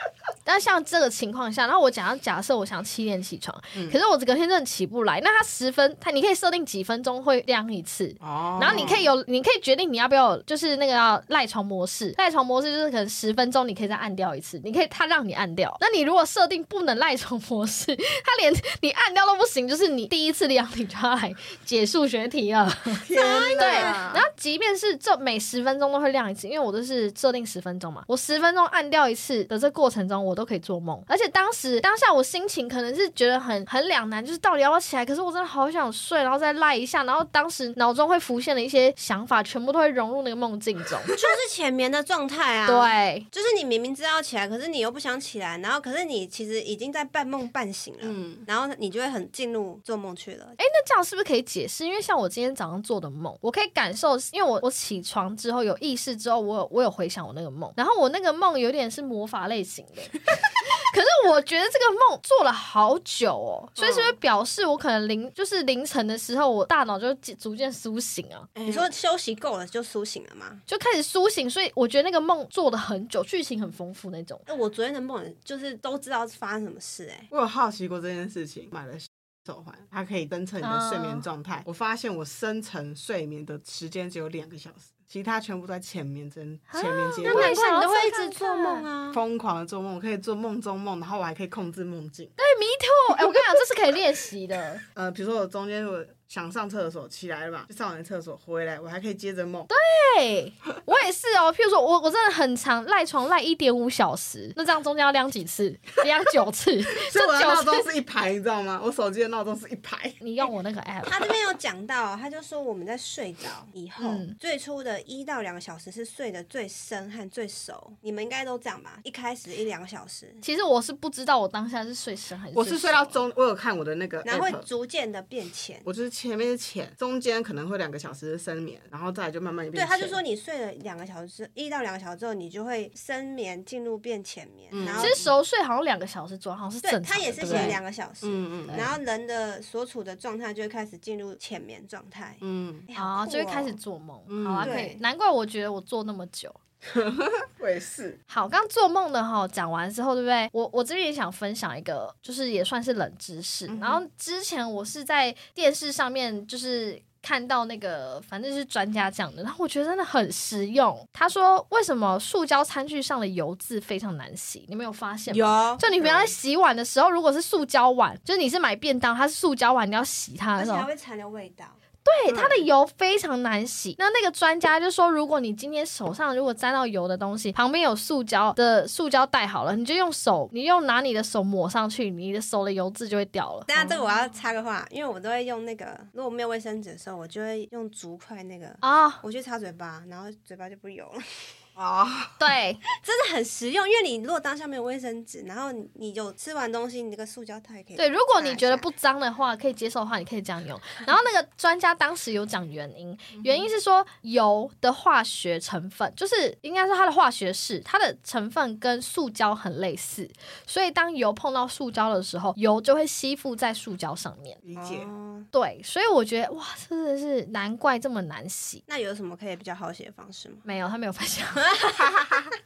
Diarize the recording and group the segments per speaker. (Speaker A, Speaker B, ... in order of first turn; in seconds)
Speaker A: 0.5-41.1, 42.7-43.3, 50.6-68.5, 70.7-74.4, 80.6-81.2, 86.7-88.9, 92.4-94.8, 99.7-107.9, 110.2-111.2, 114.0-114.4, 120.4-123.2, 135.0-137.8, 142.9-146.6, 148.3-170.9, 172.1-183.9, 188.8-189.2, 192.4-192.8, 198.0-214.6, 215.5-218.8, 220.7-221.7
Speaker B: 8.2-9.1, 23.0-24.2, 48.0-48.5, 63.8-64.2, 68.5-68.9, 77.3-87.6, 89.1-92.3, 95.0-99.7, 106.9-110.2, 122.5-124.7, 125.8-130.2, 134.7-135.2, 137.4-138.9, 142.4-142.9, 144.3-144.8, 146.8-148.2, 153.7-154.0, 191.8-192.4, 214.6-215.1, 222.1-222.5
Speaker C: 8.7-9.0, 23.1-24.1, 41.1-50.6, 68.7-70.6, 74.5-77.3, 87.2-89.2, 111.0-120.4, 124.2-125.9, 129.8-135.3, 136.8-143.8, 144.6-145.0, 165.3-166.3, 170.6-172.7, 183.7-191.6, 193.0-198.9, 214.8-215.5, 218.9-220.7